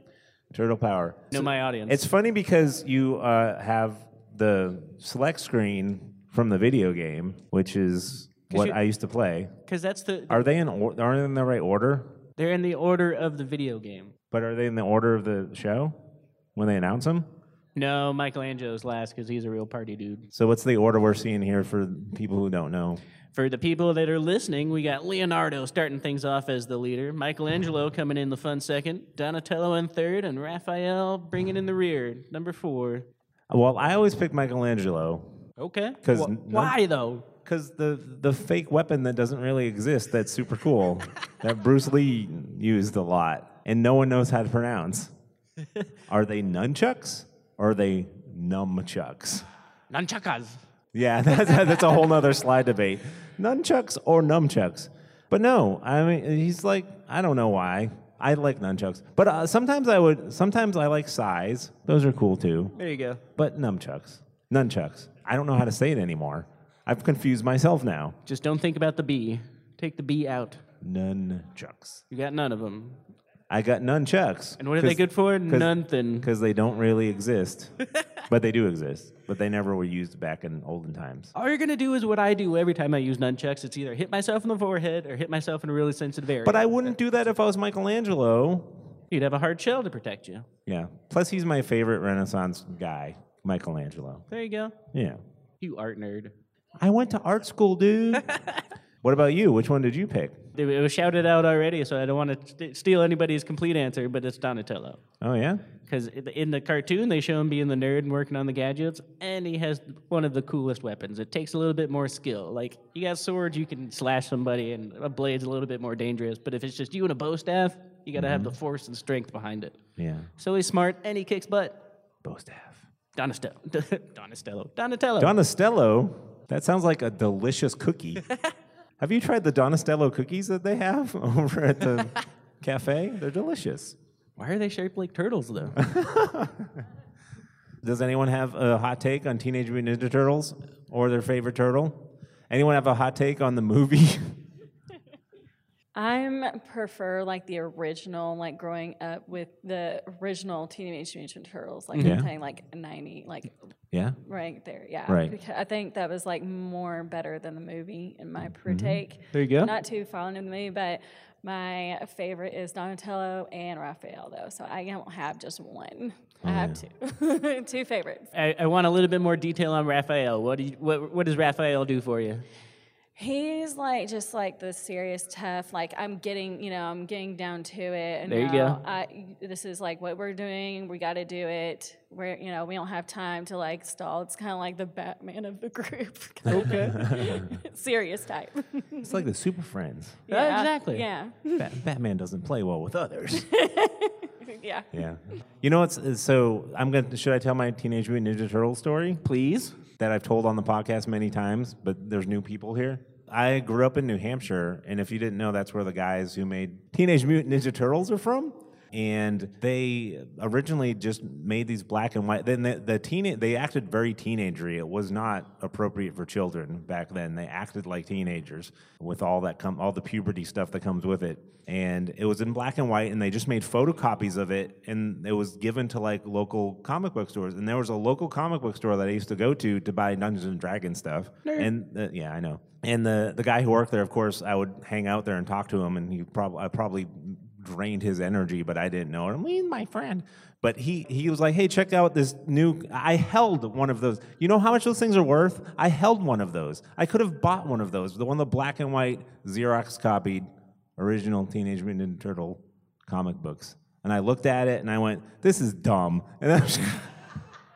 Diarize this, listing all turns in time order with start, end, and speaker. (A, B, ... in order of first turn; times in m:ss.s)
0:00.5-0:09.5 A
0:01.3-0:02.0 B
0:08.5-0:08.8 B
0:09.7-0:10.5 B
0:10.3-0:12.1 A
0:12.4-0:14.1 B
0:14.3-0:16.0 A
0:16.5-0:17.3 A
0:17.7-0:20.3 B
0:20.3-0:23.0 A
0:23.3-0:33.1 B
0:33.5-0:35.4 A
0:35.6-0:37.2 B
0:36.0-0:36.8 A
0:37.4-0:45.1 A
0:46.1-0:49.4 A
0:49.9-0:50.6 B
0:50.9-1:02.7 A
1:02.8-1:03.2 B
1:03.3-1:08.2 A
1:08.2-1:10.6 B
1:10.8-1:12.0 A
1:12.1-1:13.0 B
1:13.5-1:17.7 A
1:14.6-1:16.3 B
1:18.3-1:21.3 A
1:21.3-1:26.9 B
1:26.4-1:28.9 A
1:29.1-1:30.5 B
1:30.6-1:34.3 A
1:34.3-1:34.7 B
1:34.9-1:35.2 A
1:35.6-1:36.3 B
1:36.8-1:38.3 A
1:39.0-1:40.4 A
1:40.5-1:45.0 B
1:45.2-1:45.6 A
1:45.9-1:59.8 B
1:58.1-1:58.5 A
2:00.0-2:00.3 A
2:00.4-2:01.8 B
2:02.2-2:02.8 A
2:03.2-2:05.3 B
2:05.2-2:08.2 A
2:09.0-2:14.0 A
2:14.4-2:15.8 B
2:15.8-2:16.8 A
2:17.8-2:24.4 A
2:25.9-2:33.6 C
2:31.9-2:32.2 B
2:32.0-2:32.3 A
2:33.9-2:34.2 A
2:34.2-2:48.3 C
2:35.0-2:35.3 A
2:38.6-2:39.0 A
2:39.3-2:39.7 B
2:46.4-2:46.8 A
2:48.3-2:52.4 B
2:53.2-3:09.2 C
2:58.3-2:58.8 B
3:06.5-3:07.0 B
3:06.9-3:07.4 A
3:09.0-3:10.2 A
3:10.3-3:11.8 C
3:10.3-3:11.0 B
3:11.6-3:13.5 A
3:13.4-3:15.0 C
3:14.9-3:19.2 A
3:19.2-3:19.7 B
3:20.0-4:17.2 A
3:51.4-3:51.7 B